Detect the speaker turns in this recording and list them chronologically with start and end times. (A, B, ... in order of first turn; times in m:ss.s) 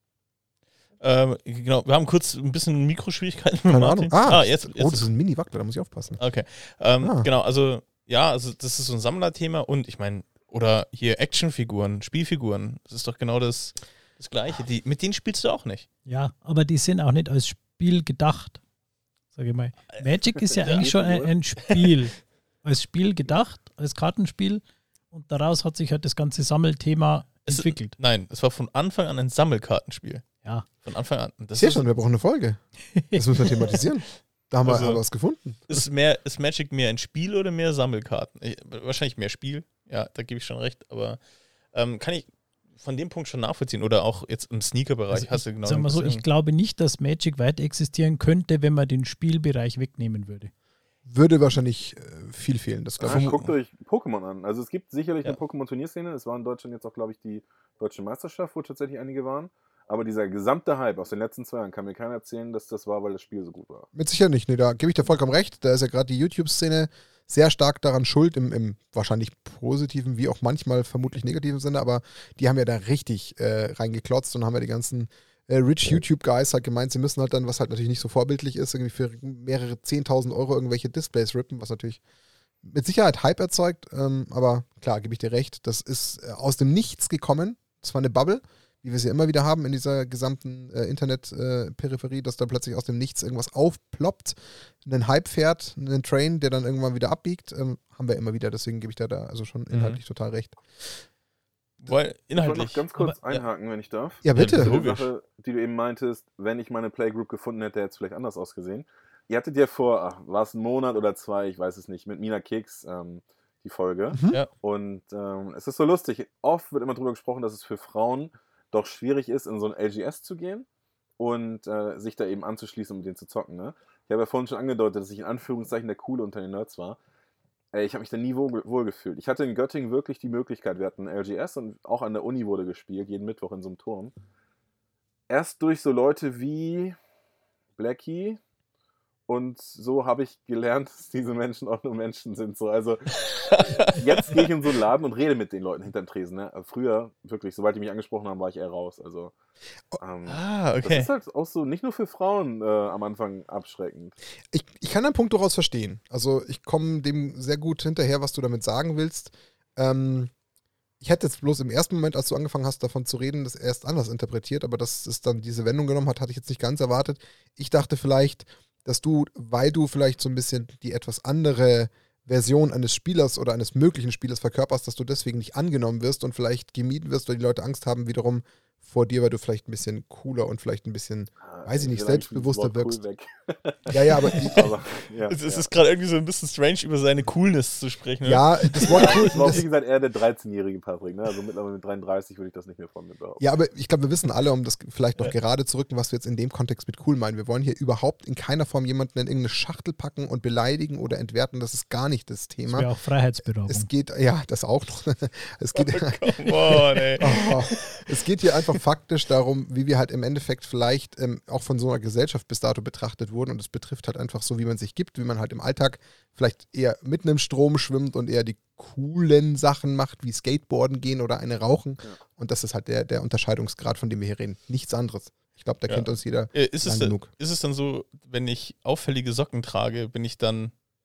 0:01.0-0:05.1 A
0:03.7-0:06.2 B
0:06.2-0:15.8 A
0:07.0-0:07.3 B
0:16.0-0:18.6 C
0:19.3-0:28.0 C
0:20.4-0:21.9 A
0:20.7-0:21.1 D
0:27.4-0:31.8 A
0:31.6-0:35.6 B
0:33.0-0:33.8 C
0:34.6-0:35.0 A
0:35.7-0:41.2 A
0:41.7-0:46.2 A
0:45.1-0:50.5 C
0:51.0-0:53.5 B
0:53.0-1:03.9 D
1:03.9-1:22.0 B
1:22.6-1:40.6 B
1:39.7-1:40.0 A
1:41.8-1:43.4 A
1:42.3-2:00.6 D
1:44.2-1:44.7 B
1:44.3-1:45.1 A
1:54.1-1:54.4 B
2:01.2-2:07.0 D
2:07.7-2:14.1 D
2:15.3-2:17.0 D
2:17.8-2:18.4 D
2:19.3-2:29.3 D
2:23.2-2:24.4 A
2:30.0-2:34.2 D
2:30.3-2:31.1 A
2:34.5-2:40.3 B
2:41.0-3:03.0 B
3:01.4-3:05.6 D
3:03.9-3:04.7 B
3:04.3-3:04.7 A
3:05.3-3:09.6 A
3:08.2-3:09.6 B
3:08.8-3:13.4 D
3:13.4-3:22.9 B
3:22.7-3:23.9 C
3:23.6-3:47.3 B
3:25.7-3:28.1 A
3:45.9-3:50.7 A